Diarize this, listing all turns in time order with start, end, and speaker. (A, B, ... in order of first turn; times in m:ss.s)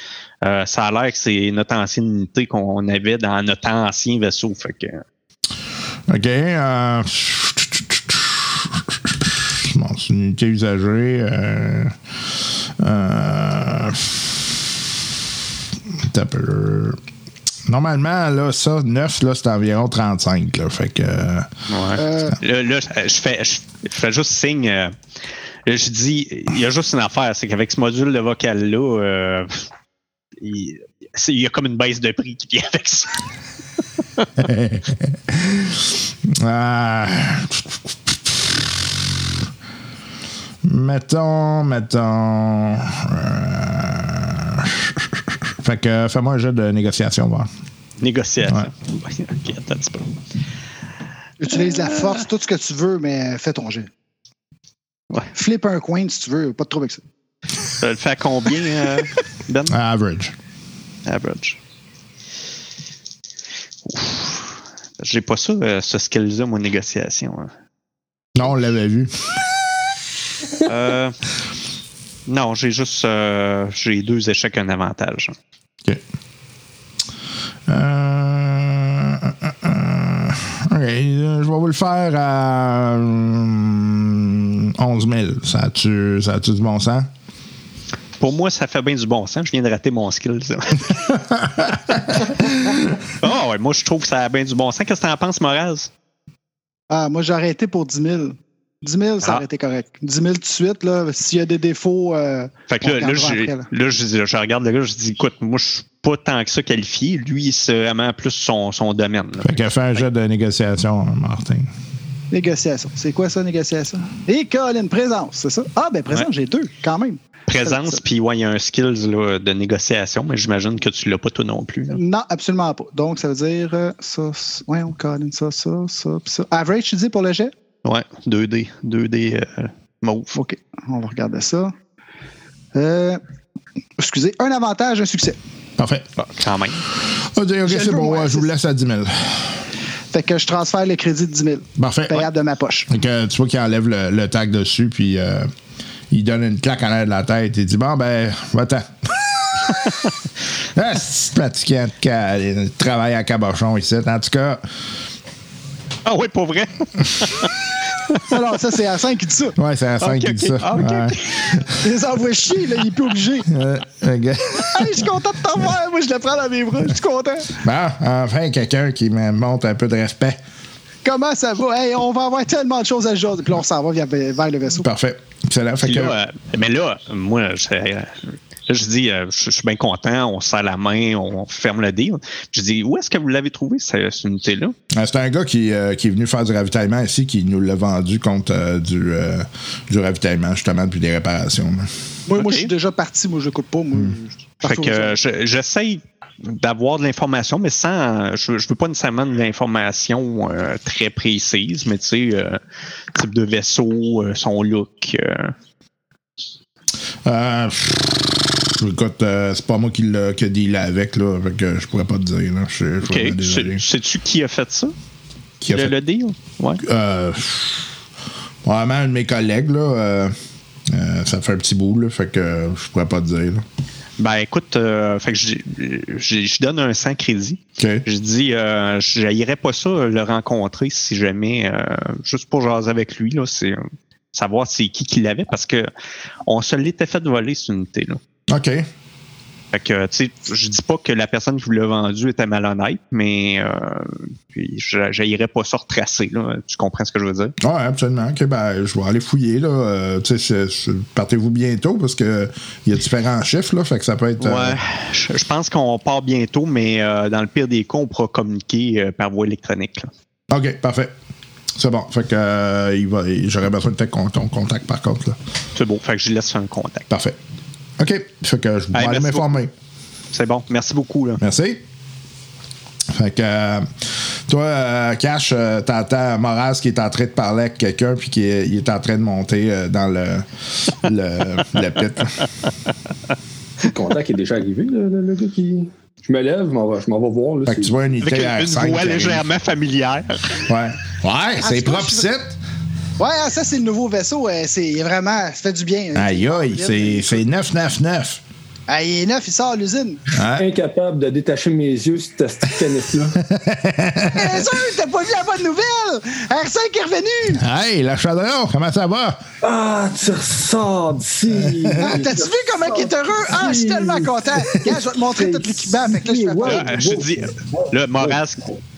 0:00.4-0:05.0 A
0:06.1-0:12.0 B
0:12.8-0:14.7 B
0:15.9-0:17.0 B
0:17.7-0:21.5 B
0:21.7-0:25.0 A
0:22.0-0:22.4 C
0:25.6-0:29.7 A
0:30.4-0:33.2 A
0:34.4-0:38.8 B
0:40.6-0:45.1 B
0:45.6-0:47.5 B
0:48.0-0:50.1 A
0:51.4-0:53.9 C
0:51.5-0:52.1 A
0:55.3-0:57.0 C
0:57.8-0:59.8 A
0:59.7-1:00.3 B
1:01.0-1:01.6 A
1:03.8-1:07.5 A
1:08.3-1:09.1 B
1:10.6-1:11.2 A
1:12.3-1:15.3 A
1:17.7-1:27.1 B
1:28.2-1:31.0 A
1:31.1-1:32.8 B
1:33.2-1:35.9 A
1:36.9-1:43.7 C
1:42.7-1:50.0 A
1:49.4-1:51.7 B
1:52.3-1:58.0 C
1:57.5-2:02.0 A
2:01.9-2:07.5 C
2:07.8-2:10.3 A
2:10.3-2:11.7 C
2:12.7-2:13.2 C
2:14.0-2:15.4 C
2:15.8-2:16.1 B
2:16.2-2:16.8 A
2:17.1-2:19.6 B
2:17.6-2:18.5 C
2:20.1-2:22.9 C
2:21.8-2:22.3 B
2:22.9-2:25.5 B
2:26.1-2:29.9 B
2:30.7-2:34.6 B
2:36.0-2:37.5 A
2:38.3-2:39.6 C
2:39.6-2:41.7 B
2:40.0-2:41.6 A
2:41.8-2:43.5 C
2:43.5-2:45.0 B
2:44.7-2:47.6 C
2:47.6-2:50.4 B
2:51.0-2:54.9 C
2:54.8-2:56.1 B
2:55.8-3:04.7 A
3:04.9-3:11.9 B
3:12.3-3:15.2 C
3:12.4-3:12.7 A
3:14.6-3:22.6 A
3:23.1-3:25.5 A
3:27.2-3:33.8 B
3:33.0-3:34.9 A
3:35.6-3:35.9 B
3:35.7-3:36.8 A
3:36.8-3:37.9 B
3:38.6-3:40.3 B
3:40.9-3:43.6 B
3:44.2-3:53.8 A
3:47.8-3:48.0 B
3:54.3-3:55.9 A
3:56.5-3:58.2 A
3:58.5-3:58.8 B
3:59.7-4:07.5 A
4:07.6-4:14.8 B
4:14.4-4:20.1 A
4:20.5-4:21.1 B
4:21.8-4:25.4 B
4:25.7-4:27.1 A
4:27.1-4:27.4 B
4:28.0-4:29.7 B
4:28.9-4:29.6 A
4:30.3-4:31.4 A
4:31.4-4:31.8 B
4:33.1-4:42.4 B
4:43.8-4:47.9 D
4:47.6-4:49.5 B
4:48.2-4:50.7 A
4:50.6-4:52.6 B
4:51.6-4:52.3 C
4:53.2-4:57.4 C
4:56.1-4:58.4 B
4:58.9-5:00.2 C
5:00.3-5:00.7 B
5:00.5-5:03.4 D
5:03.4-5:04.7 B
5:04.3-5:07.6 C
5:07.6-5:09.4 B
5:09.6-5:18.4 D
5:11.5-5:12.1 B
5:12.0-5:17.0 C
5:16.6-5:18.7 A